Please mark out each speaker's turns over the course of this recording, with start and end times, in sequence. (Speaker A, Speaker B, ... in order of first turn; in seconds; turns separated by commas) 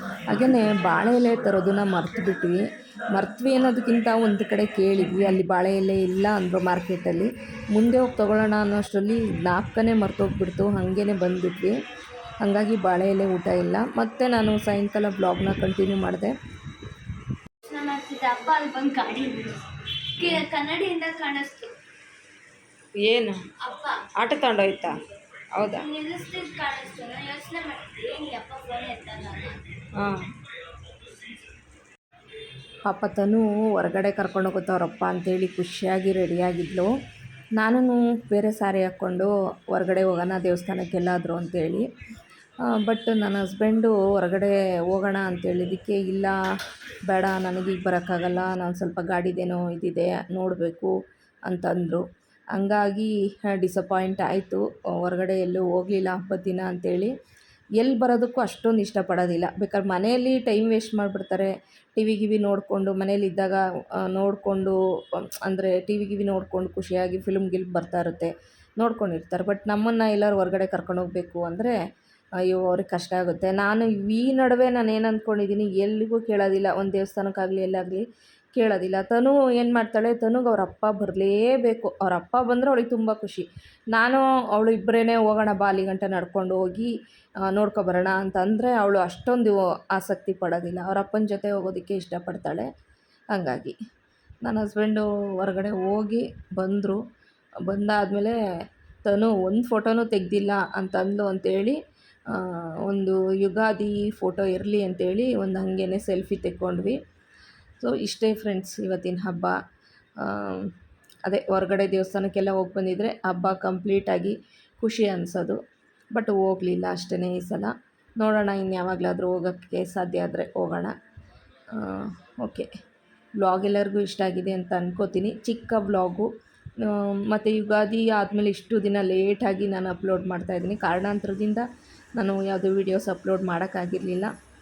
Speaker A: 0.3-11.8, Speaker A: 12.4-16.3, Speaker B: 17.7-21.8, Speaker A: 23.0-23.5, Speaker B: 23.6-24.1, Speaker A: 24.2-24.9, Speaker A: 25.5-25.9, Speaker B: 25.6-29.7, Speaker A: 29.9-30.3, Speaker A: 32.9-36.9, Speaker A: 37.6-41.9, Speaker A: 42.7-46.4, Speaker A: 47.1-50.9, Speaker A: 51.5-52.0, Speaker A: 52.5-57.1, Speaker A: 57.8-71.8, Speaker A: 72.5-78.0, Speaker A: 78.6-86.9, Speaker A: 87.5-92.7, Speaker A: 93.3-93.8, Speaker A: 94.4-97.0, Speaker A: 97.7-98.4, Speaker A: 99.1-107.0, Speaker A: 107.8-109.5, Speaker A: 110.2-110.7, Speaker A: 111.2-115.6, Speaker A: 116.1-120.9, Speaker A: 121.8-122.7, Speaker A: 123.4-131.7, Speaker A: 132.2-134.3